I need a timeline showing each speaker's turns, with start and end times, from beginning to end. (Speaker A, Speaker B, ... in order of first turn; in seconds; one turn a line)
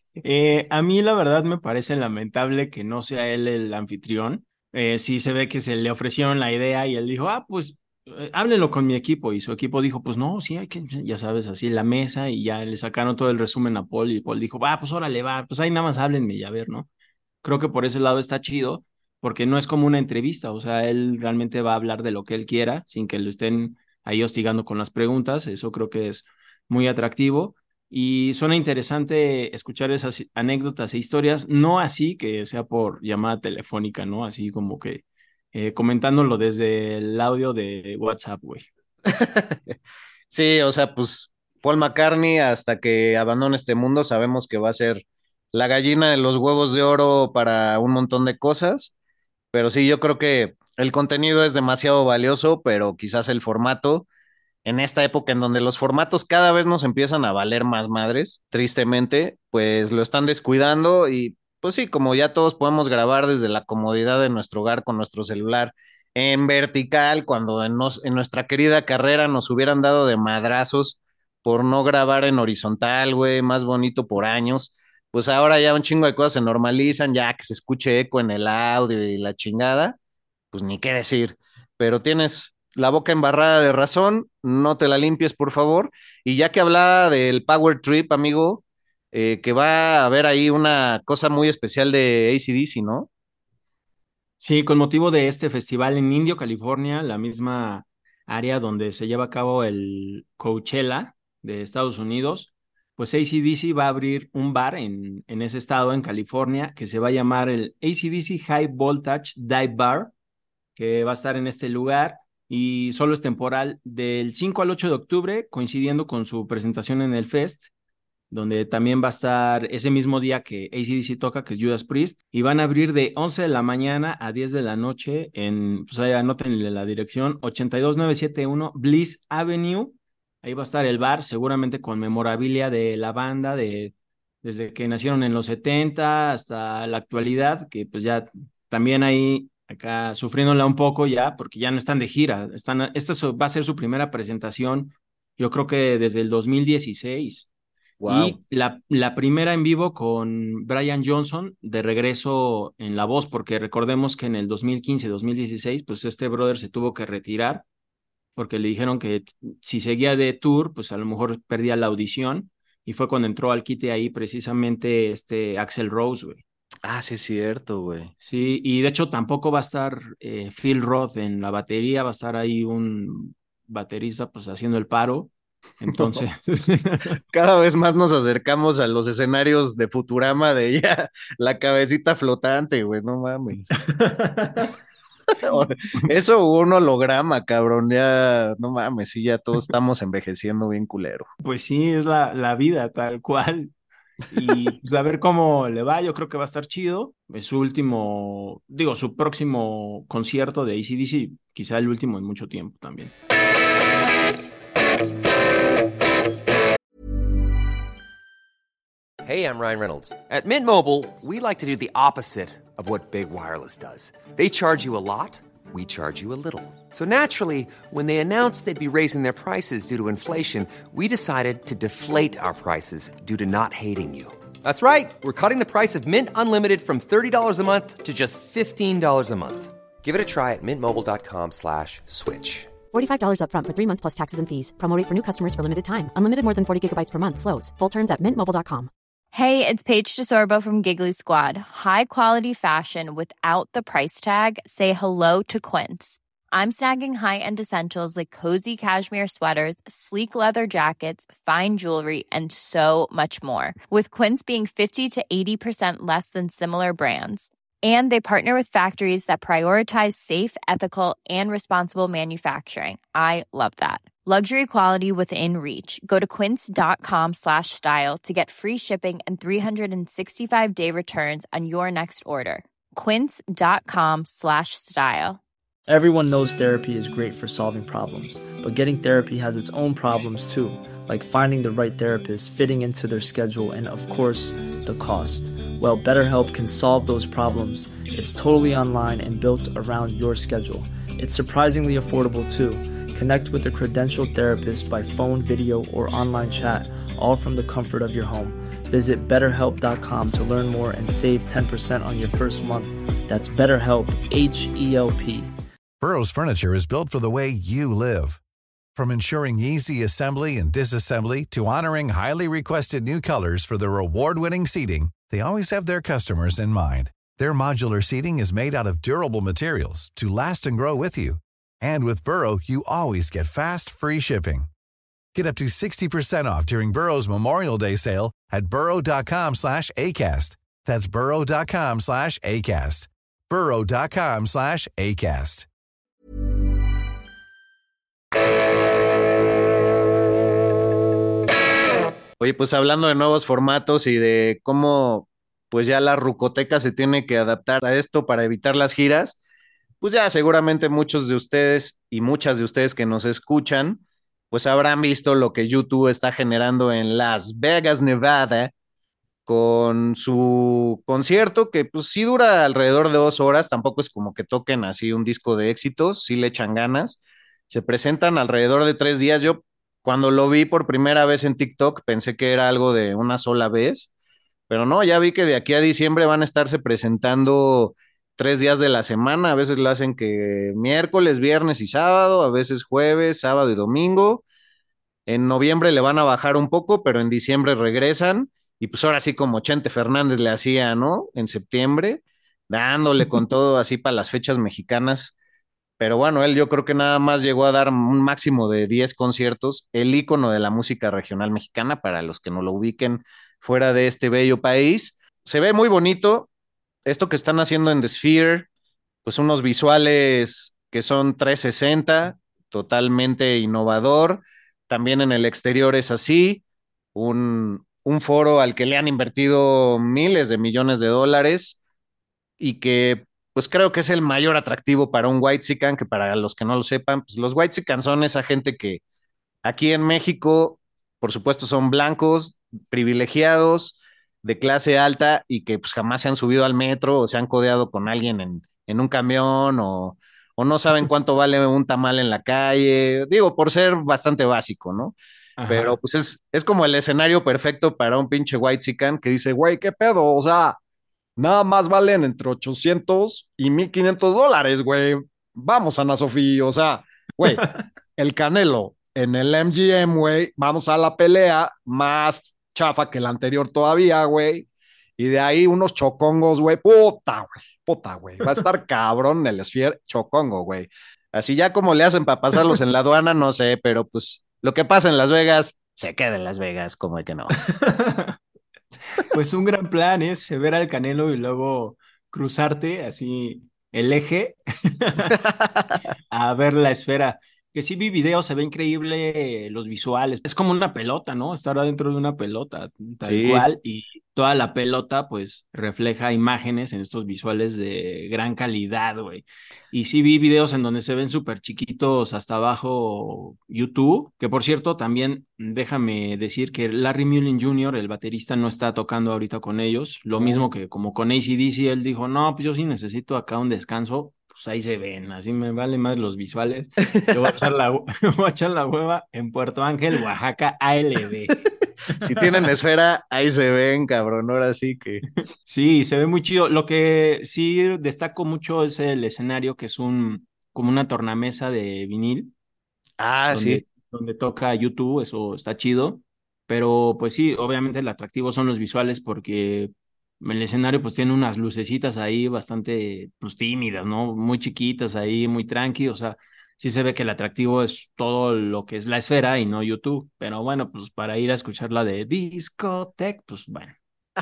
Speaker A: 0.2-16.9
Speaker A: 17.4-38.7
Speaker B: 39.1-39.8
Speaker B: 40.3-48.9
Speaker B: 49.5-54.0
Speaker B: 54.6-80.0
Speaker B: 80.5-93.1
Speaker A: 94.4-110.1
Speaker A: 110.8-117.7
Speaker A: 118.3-147.5
Speaker B: 148.0-148.4
Speaker A: 148.1-157.6
Speaker A: 158.3-166.4
Speaker B: 166.8-168.1
Speaker A: 168.2-177.1
Speaker B: 177.3-183.8
Speaker A: 183.8-184.7
Speaker B: 185.4-191.2
Speaker A: 191.4-193.7
Speaker A: 194.3-203.1
Speaker C: 209.2-232.8
Speaker D: 232.9-238.9
Speaker E: 239.3-275.4
Speaker F: 275.9-305.5
Speaker G: 306.0-308.4
Speaker G: 308.9-324.7
Speaker G: 325.3-335.6
Speaker B: 342.4-349.4
Speaker B: 350.0-354.0
Speaker B: 354.5-358.7
Speaker B: 359.5-374.1
Speaker B: 374.7-384.4
Speaker B: 385.3-395.3
Speaker B: 396.0-406.5
Speaker B: 407.1-408.7
Speaker B: 409.2-416.6
Speaker B: 417.1-421.8
Speaker B: 422.6-429.0
Speaker B: 429.6-445.1
Speaker A: 445.6-445.9
Speaker B: 445.7-450.8
Speaker B: 451.4-464.7
Speaker B: 465.2-477.5
Speaker A: 477.6-478.4
Speaker A: 479.3-485.4
Speaker A: 486.3-521.6
Speaker B: 493.2-493.7
Speaker A: 522.2-522.6
Speaker B: 522.2-525.2
Speaker A: 525.6-532.5
Speaker B: 533.2-533.8
Speaker A: 533.5-554.0